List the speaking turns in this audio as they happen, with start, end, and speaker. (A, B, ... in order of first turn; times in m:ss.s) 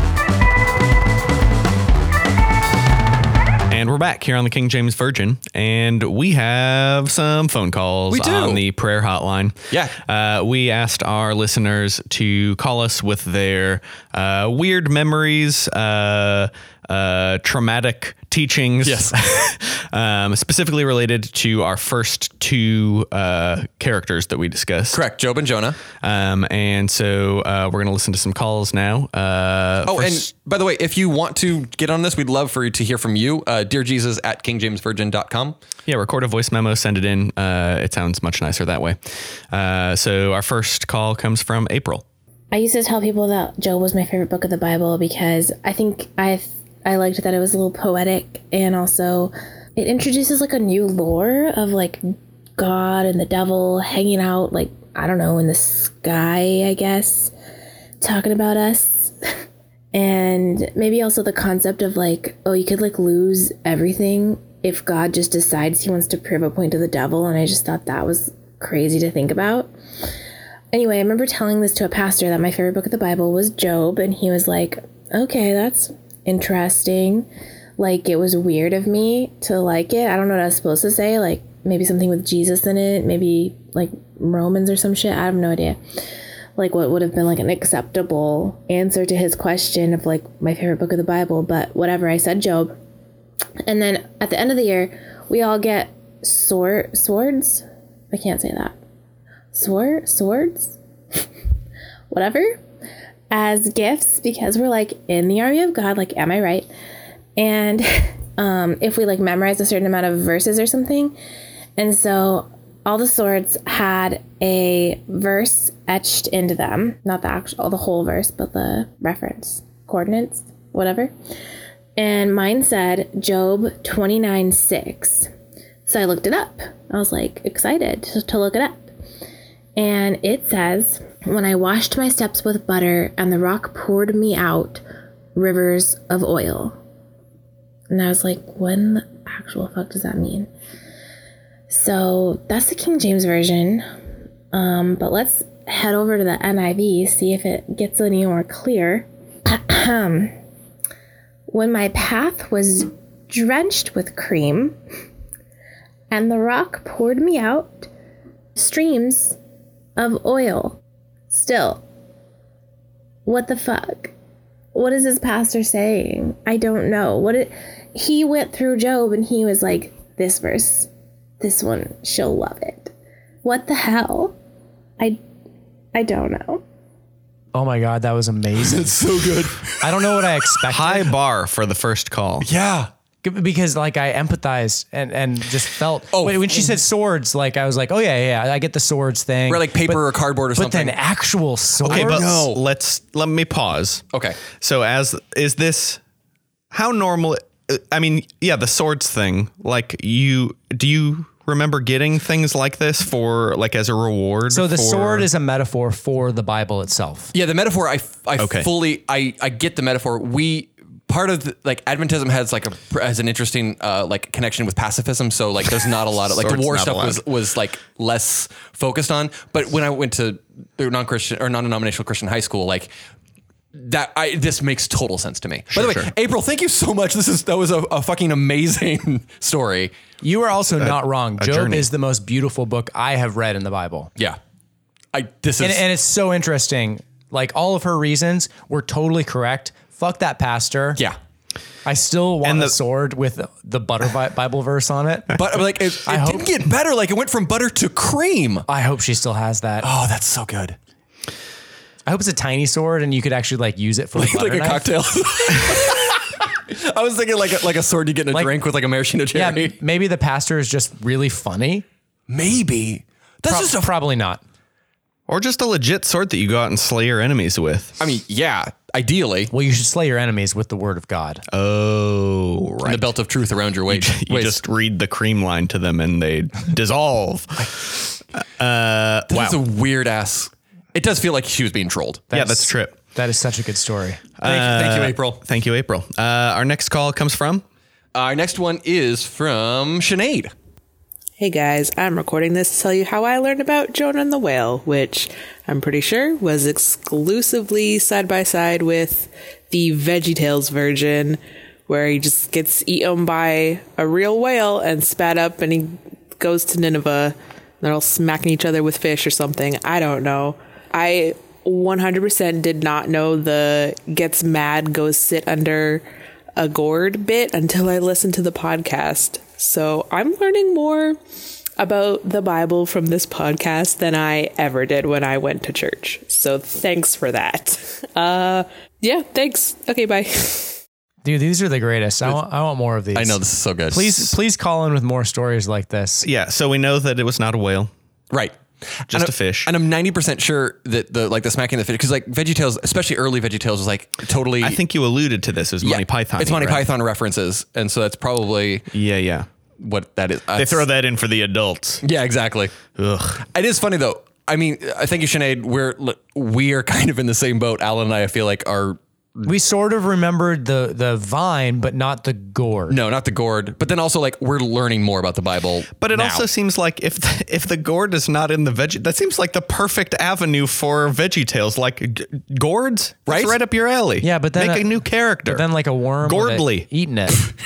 0:03.7-0:25.0 A
0:08.1-0:08.6 B
0:09.7-0:10.0 B
0:18.8-0:19.2 B
0:24.9-0:25.8 B
0:26.0-0:30.3 A
0:29.8-0:35.6 B
0:35.9-0:42.0 A
0:42.5-0:52.0 C
0:52.6-0:57.3 C
0:58.0-0:59.2 C
0:59.9-1:09.7 C
1:10.7-1:25.8 C
1:26.6-1:32.8 C
1:33.6-1:38.8 C
1:39.5-1:40.8 C
1:42.1-1:42.6 C
1:43.3-1:46.7 C
1:47.4-1:51.1 C
1:51.8-2:01.1 C
2:02.0-2:05.3 C
2:05.8-2:08.9 C
2:09.8-2:14.8 C
2:15.3-2:16.8 C
2:17.9-2:20.5 C
2:21.7-2:23.9 C
2:24.5-2:30.3 C
2:31.5-2:34.8 C
2:36.1-2:37.9 C
2:38.6-2:39.4 C
2:40.0-2:40.8 C
2:41.3-2:41.8 C
2:43.2-2:44.1 C
2:44.7-2:50.9 C
2:51.4-2:52.9 C
2:53.4-2:54.4 C
2:55.9-2:56.6 C
2:57.5-2:59.0 D
2:58.6-2:59.8 B
2:59.8-3:01.2 D
3:00.7-3:02.5 A
3:02.4-3:02.9 B
3:03.2-3:10.0 D
3:06.1-3:06.8 B
3:09.5-3:11.0 B
3:10.5-3:12.2 D
3:11.8-3:12.6 B
3:11.9-3:14.0 A
3:14.1-3:14.4 B
3:14.6-3:16.0 A
3:16.7-3:25.3 A
3:24.5-3:27.3 D
3:27.3-3:42.9 B
3:28.4-3:28.7 A
3:36.4-3:37.2 A
3:43.7-3:49.9 B
3:45.7-3:46.1 A
3:50.2-3:54.1 D
3:50.8-3:51.9 A
3:55.1-3:55.8 B
3:55.6-4:01.0 D
4:01.8-4:05.4 D
4:02.4-4:02.7 A
4:05.3-4:08.6 B
4:06.0-4:06.4 D
4:08.7-4:09.9 D
4:09.8-4:10.8 B
4:12.1-4:14.8 D
4:14.2-4:19.7 B
4:19.3-4:21.8 D
4:22.3-4:23.9 B
4:23.5-4:24.4 D
4:25.3-4:28.0 A
4:28.0-4:29.5 B
4:29.5-4:31.4 D
4:31.5-4:33.1 A
4:32.8-4:34.6 B
4:33.9-4:39.6 A
4:39.3-4:42.2 B
4:42.3-4:44.4 D
4:42.3-4:42.9 A
4:44.4-4:47.6 A
4:44.4-4:45.4 B
4:48.1-4:50.5 B
4:51.4-5:16.0 E
5:16.6-5:21.2 E
5:21.8-5:30.8 E
5:31.2-5:36.2 D
5:33.1-5:34.1 B
5:36.2-5:37.9 A
5:38.3-5:44.8 B
5:39.1-5:39.7 A
5:44.6-5:46.9 A
5:45.8-5:48.9 B
5:48.9-5:49.5 A
5:49.8-5:50.9 B
5:50.6-5:52.0 A
5:52.0-5:52.7 B
5:53.0-5:53.4 A
5:53.5-5:59.5 B
5:59.4-6:03.0 D
6:02.9-6:06.4 B
6:06.0-6:15.6 A
6:13.3-6:13.6 B
6:14.2-6:17.4 D
6:16.2-6:16.9 A